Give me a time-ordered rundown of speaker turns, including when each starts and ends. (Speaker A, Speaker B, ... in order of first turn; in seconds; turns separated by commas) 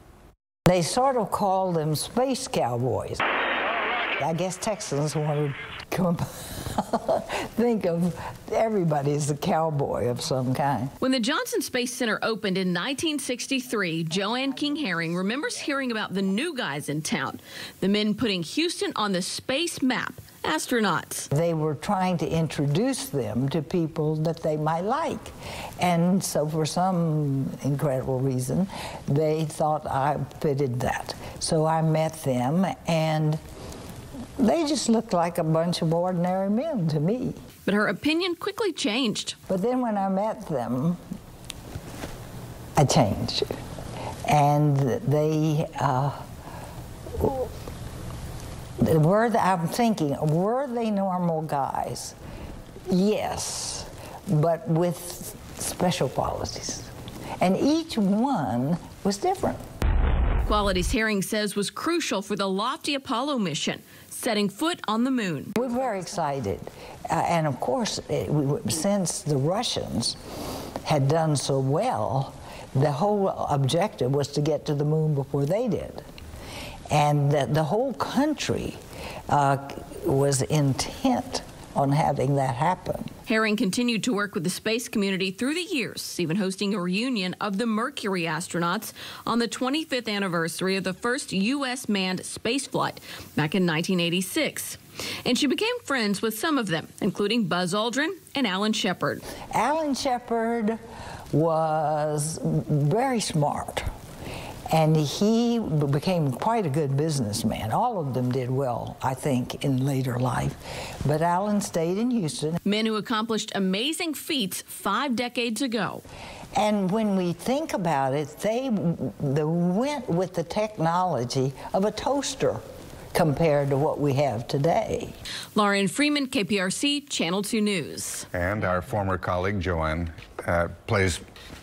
Speaker A: 0.7-3.2, Speaker A: 4.2-10.9, Speaker B: 11.0-21.3, Speaker A: 21.3-33.4, Speaker A: 34.4-37.4, Speaker B: 37.6-39.3, Speaker A: 39.5-41.0, Speaker A: 42.8-43.5, Speaker A: 44.2-46.2, Speaker A: 47.2-47.5, Speaker A: 48.8-52.1, Speaker A: 52.9-59.6, Speaker B: 60.5-65.5, Speaker A: 65.6-70.2, Speaker A: 70.8-76.0, Speaker A: 76.9-83.1, Speaker B: 83.3-99.2, Speaker A: 99.5-100.8, Speaker A: 101.3-103.9, Speaker A: 104.7-112.6, Speaker B: 112.6-116.0, Speaker A: 116.5-122.6, Speaker A: 123.1-125.1, Speaker B: 125.5-128.3, Speaker C: 128.3-131.2